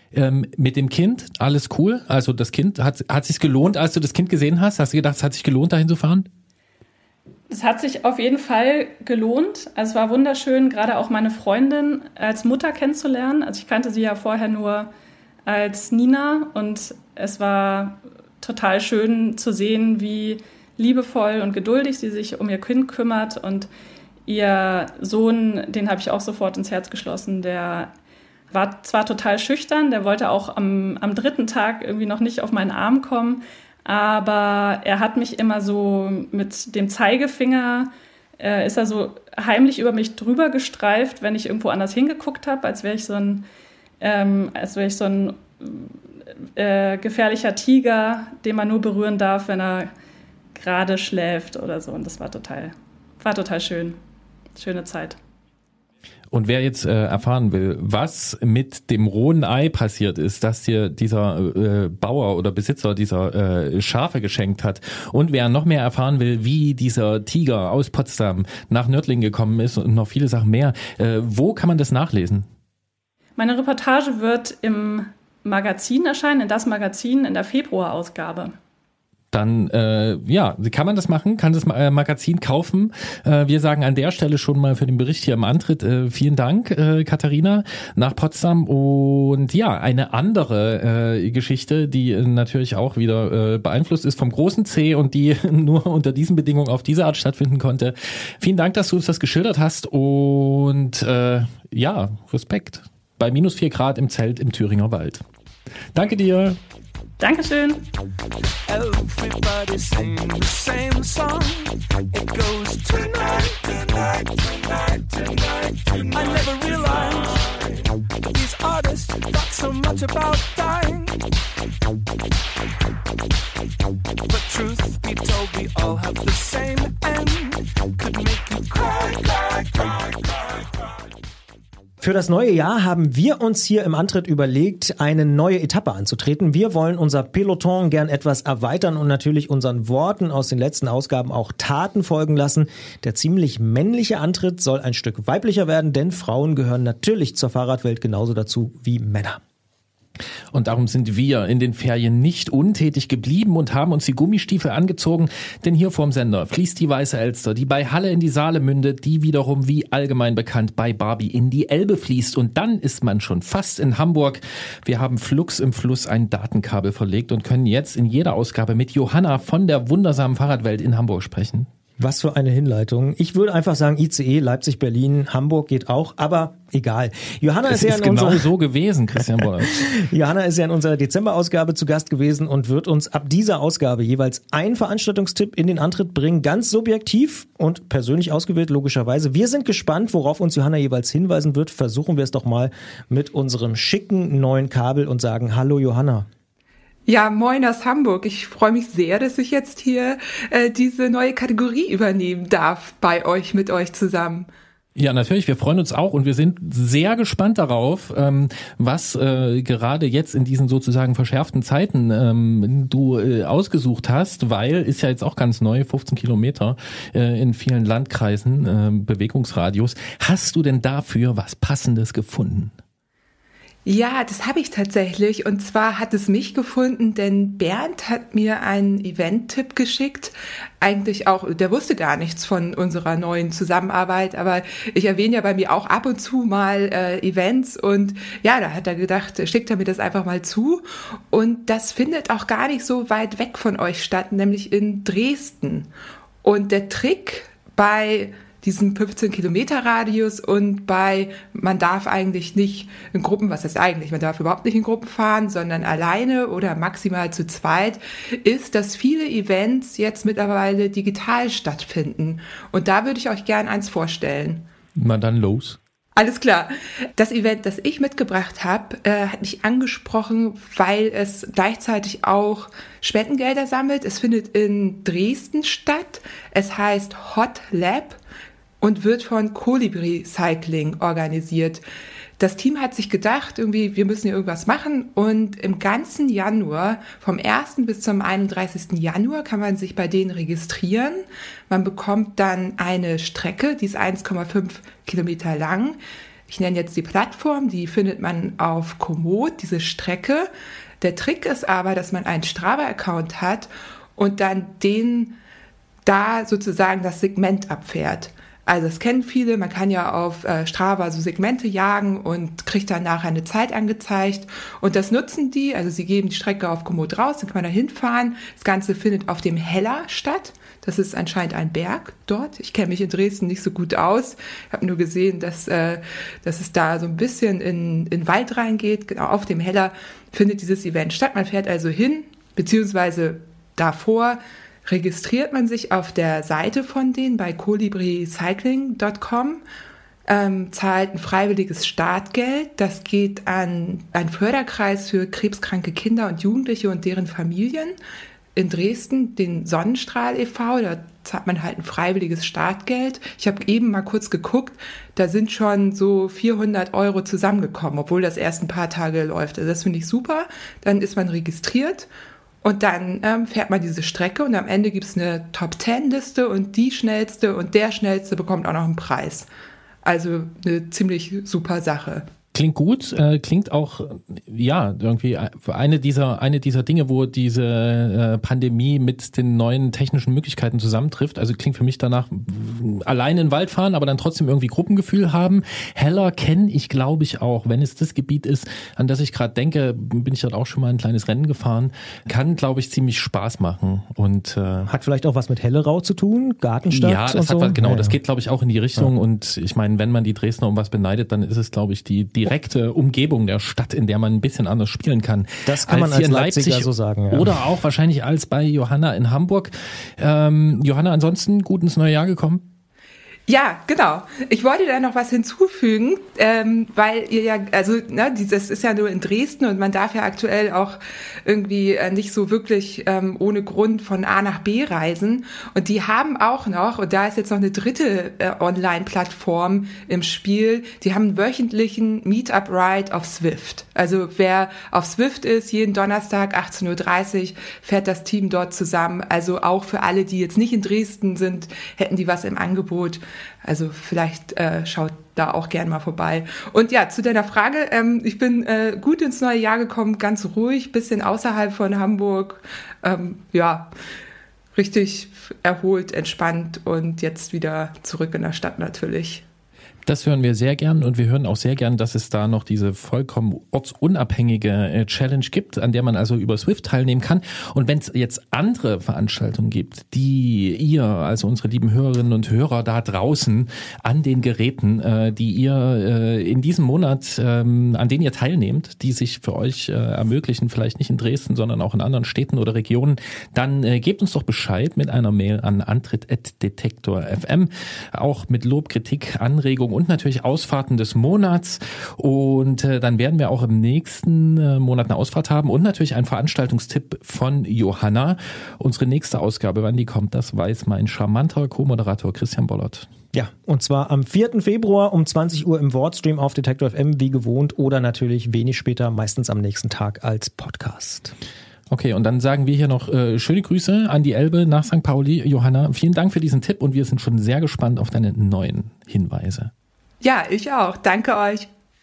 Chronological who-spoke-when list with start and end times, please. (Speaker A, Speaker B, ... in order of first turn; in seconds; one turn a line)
Speaker A: 0.1-6.3
Speaker B: 7.5-14.9
Speaker B: 15.4-23.7
Speaker B: 24.2-27.9
Speaker B: 28.5-43.4
Speaker B: 44.0-45.9
Speaker B: 46.5-49.9
Speaker B: 50.5-54.0
Speaker B: 54.5-55.2
Speaker A: 56.3-72.5
Speaker B: 73.4-78.5
Speaker A: 79.3-105.2
Speaker A: 105.9-106.6
Speaker B: 107.2-107.9
Speaker C: 108.7-121.1
Speaker C: 124.3-130.9
Speaker D: 132.0-149.4
Speaker A: 150.5-171.7
Speaker D: 172.0-178.5
Speaker A: 177.6-179.9
Speaker D: 179.8-196.3
Speaker E: 197.1-204.5
Speaker A: 204.9-222.7
Speaker E: 223.8-245.9
Speaker E: 246.4-264.6
Speaker A: 265.0-265.8
Speaker E: 266.1-278.2
Speaker E: 278.8-281.8
Speaker E: 282.4-300.5
Speaker E: 301.0-305.3
Speaker E: 306.0-339.6
Speaker E: 340.2-348.0
Speaker E: 348.5-362.1
Speaker E: 362.6-369.5
Speaker E: 370.0-372.3
Speaker A: 372.5-394.9
Speaker D: 394.9-398.1
Speaker A: 396.9-412.6
Speaker D: 405.6-407.6
Speaker E: 413.5-453.9
Speaker E: 454.7-459.4
Speaker A: 460.0-503.1
Speaker D: 503.3-511.3
Speaker A: 511.9-519.7
Speaker E: 520.2-521.7